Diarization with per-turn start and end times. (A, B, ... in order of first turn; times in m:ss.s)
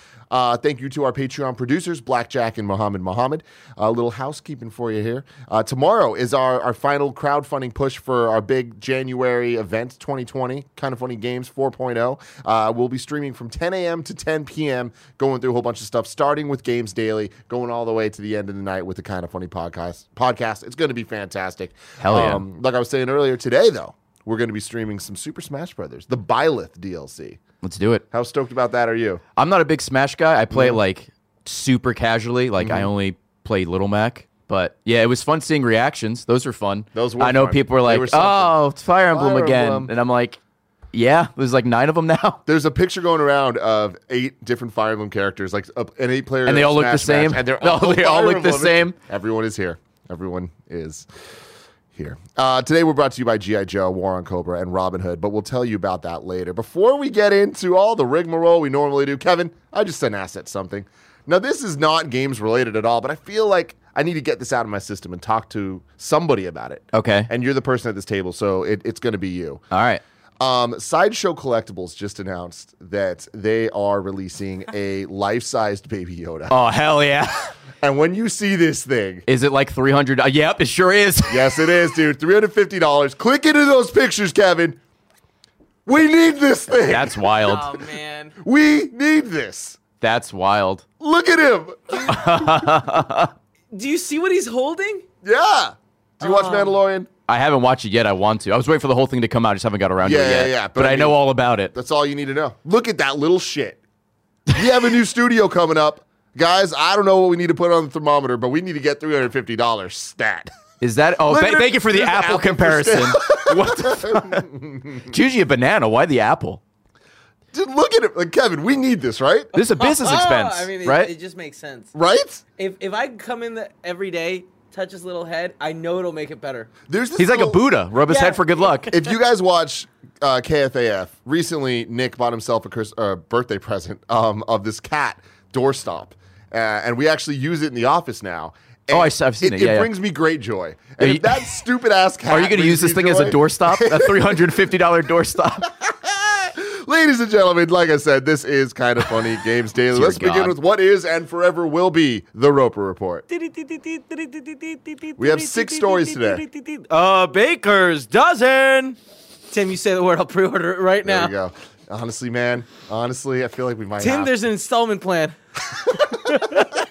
0:00.3-0:27.4 A
0:22.0-0:22.4 B
0:27.6-0:28.0 B
0:28.1-0:29.2 A
0:29.4-0:40.4 B
0:30.5-0:30.8 A
0:32.6-0:32.9 A
0:36.9-0:39.9 A
0:40.9-0:42.4 B
0:42.4-0:51.1 A
0:46.4-0:49.0 B
0:51.9-1:09.6 A
1:06.9-1:07.3 B
1:09.7-1:10.0 B
1:10.4-1:16.6 A
1:16.5-1:17.5 B
1:17.8-1:19.2 A
1:19.3-1:21.6 B
1:21.3-1:24.8 A
1:25.8-1:27.2 A
1:26.9-1:27.7 B
1:27.4-1:28.3 C
1:28.4-1:29.8 A
1:30.0-1:30.8 B
1:31.0-1:32.7 A
1:32.0-1:33.3 B
1:33.7-1:35.0 C
1:35.2-1:37.1 A
1:36.2-1:36.8 C
1:37.3-1:41.7 B
1:40.0-1:43.8 A
1:44.5-1:50.5 A
1:50.8-1:54.5 B
1:51.2-1:55.1 A
1:55.0-1:56.6 B
1:57.5-1:59.5 A
1:59.5-2:01.1 B
1:59.6-2:01.9 C
2:01.9-2:02.4 A
2:02.6-2:06.7 C
2:06.9-2:07.6 A
2:07.2-2:08.9 B
2:08.1-2:09.0 C
2:08.9-2:24.5 A
2:18.9-2:19.9 B
2:21.0-2:21.6 B
2:22.3-2:25.7 B
2:25.8-2:33.2 A
2:29.9-2:30.6 B
2:33.3-2:39.0 C
2:35.2-2:36.4 A
2:39.5-2:41.3 C
2:41.0-2:44.3 A
2:44.0-2:45.4 C
2:45.9-2:46.5 A
2:45.9-2:46.7 C